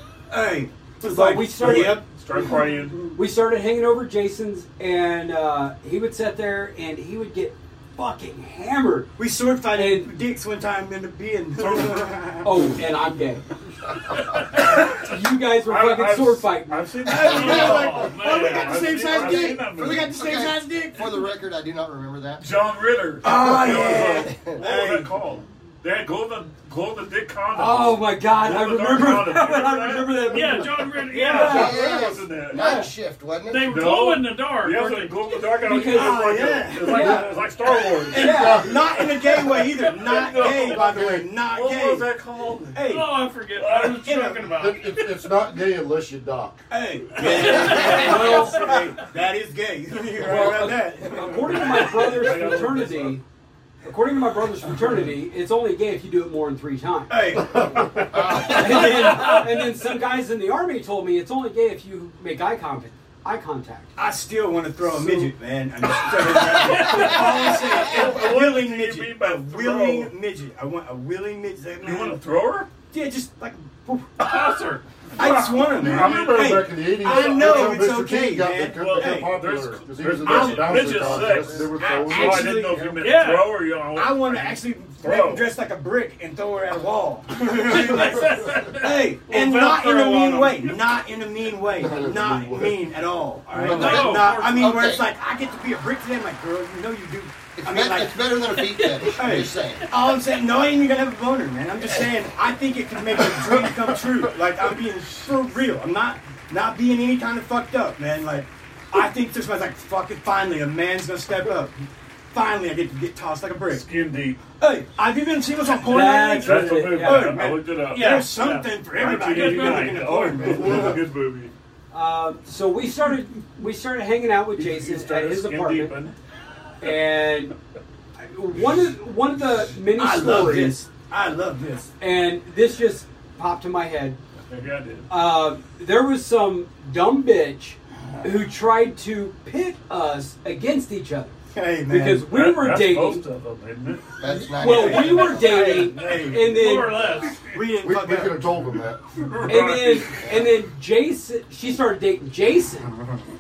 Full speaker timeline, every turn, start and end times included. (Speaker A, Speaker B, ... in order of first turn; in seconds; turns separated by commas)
Speaker A: 0.3-3.2, Speaker B: 1.0-2.0, Speaker C: 1.6-3.1, Speaker B: 3.1-9.1, Speaker A: 9.2-12.6, Speaker B: 9.7-10.1, Speaker C: 11.6-12.1, Speaker B: 12.4-13.4, Speaker C: 14.6-15.1, Speaker B: 14.8-17.1, Speaker C: 15.6-20.2, Speaker A: 17.1-21.3, Speaker D: 17.1-17.9, Speaker E: 17.4-19.4, Speaker D: 19.6-22.5, Speaker C: 22.4-32.7, Speaker A: 23.2-25.2, Speaker D: 23.9-24.5, Speaker B: 27.5-31.9, Speaker E: 30.3-32.0, Speaker D: 31.4-33.8, Speaker B: 32.5-32.9, Speaker E: 33.5-35.3, Speaker C: 33.6-43.0, Speaker B: 35.6-37.3, Speaker A: 35.8-42.1, Speaker F: 36.9-37.3, Speaker B: 38.1-38.7, Speaker F: 40.7-41.2, Speaker A: 42.7-43.2, Speaker E: 42.8-44.9, Speaker C: 43.6-44.1, Speaker A: 43.9-44.5, Speaker F: 44.6-46.6, Speaker A: 46.7-52.3, Speaker C: 47.2-48.4, Speaker E: 47.2-48.7, Speaker B: 47.7-48.6, Speaker B: 50.2-53.2, Speaker C: 51.4-53.2, Speaker B: 53.8-57.2, Speaker A: 57.1-59.4, Speaker B: 58.2-63.9, Speaker A: 64.0-72.2, Speaker C: 66.4-70.1, Speaker E: 66.7-67.6, Speaker C: 71.8-72.7, Speaker A: 72.9-74.2, Speaker E: 74.2-74.8, Speaker C: 74.2-77.9, Speaker A: 75.2-79.3, Speaker F: 75.8-82.7, Speaker C: 78.8-85.5, Speaker A: 80.2-83.0, Speaker E: 83.0-83.7, Speaker A: 83.9-98.3, Speaker C: 87.7-88.1, Speaker E: 87.7-90.7, Speaker C: 90.2-90.7, Speaker F: 91.7-92.9, Speaker C: 93.5-94.3, Speaker E: 93.5-94.7, Speaker D: 94.3-95.1, Speaker D: 97.6-99.9, Speaker E: 98.6-99.4, Speaker A: 99.1-111.7, Speaker A: 112.3-113.8, Speaker C: 113.7-114.4, Speaker A: 114.6-121.0, Speaker B: 115.9-117.4, Speaker C: 116.4-118.3, Speaker E: 117.8-120.3, Speaker C: 118.9-121.5, Speaker F: 120.7-121.0, Speaker B: 121.9-126.0, Speaker C: 124.6-126.2, Speaker B: 126.8-127.5, Speaker B: 128.2-130.8, Speaker A: 129.9-131.9, Speaker B: 132.0-134.2, Speaker C: 134.5-135.1, Speaker B: 135.1-141.3, Speaker A: 141.5-142.3, Speaker B: 141.9-143.2, Speaker C: 142.3-144.1, Speaker D: 144.2-145.7, Speaker A: 144.3-146.5, Speaker B: 144.6-147.2, Speaker E: 145.8-147.4, Speaker A: 147.5-148.5, Speaker F: 147.8-149.0, Speaker C: 149.2-150.3, Speaker B: 149.5-152.9